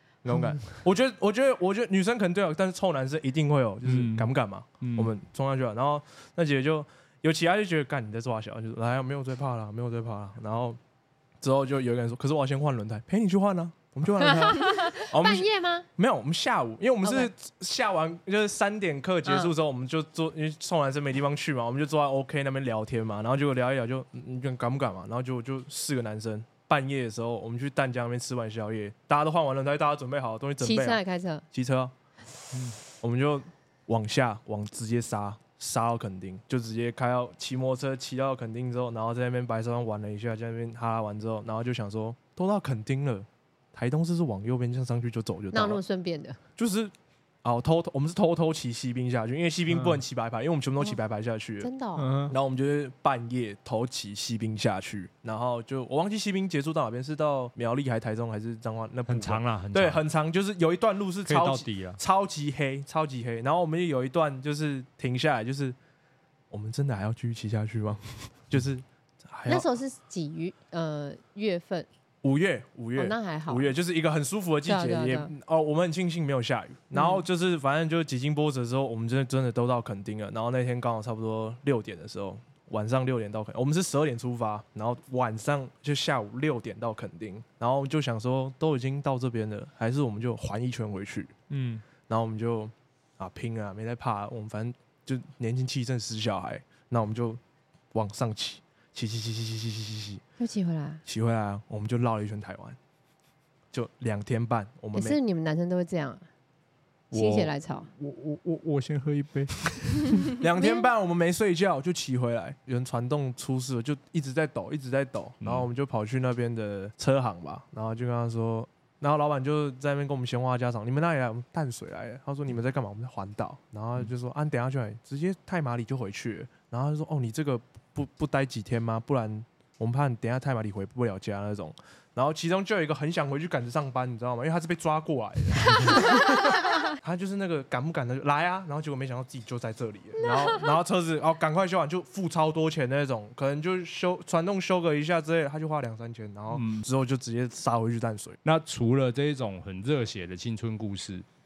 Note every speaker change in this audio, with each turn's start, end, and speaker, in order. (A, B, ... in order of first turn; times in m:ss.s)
0:00.2-0:10.8 A
0:03.8-0:05.1 B
0:11.4-0:31.9 A
0:14.2-0:15.9 C
0:17.0-0:17.3 C
0:19.3-0:19.5 C
0:30.6-0:31.4 C
0:32.9-0:45.8 A
0:45.5-0:46.4 C
0:46.6-0:46.9 A
0:47.4-0:51.7 A
0:49.7-0:50.0 B
0:51.6-0:52.1 C
0:52.0-0:52.4 B
0:52.3-1:05.8 A
0:59.1-1:00.0 B
1:01.3-1:02.0 B
1:06.5-1:09.7 A
1:09.5-1:11.9 C
1:12.2-1:31.3 A
1:13.0-1:13.7 C
1:14.7-1:15.3 C
1:16.9-1:17.2 C
1:31.5-1:31.8 B
1:32.1-1:37.4 A
1:37.9-1:40.2 A
1:40.4-1:41.0 C
1:41.1-1:42.8 A
1:43.7-1:45.2 A
1:44.9-1:46.2 C
1:47.1-1:50.3 B
1:47.1-1:47.9 C
1:50.4-2:28.4 A
1:50.6-1:50.9 C
1:55.4-1:55.7 B
2:20.2-2:20.6 C
2:26.5-2:26.8 B
2:28.4-2:31.3 B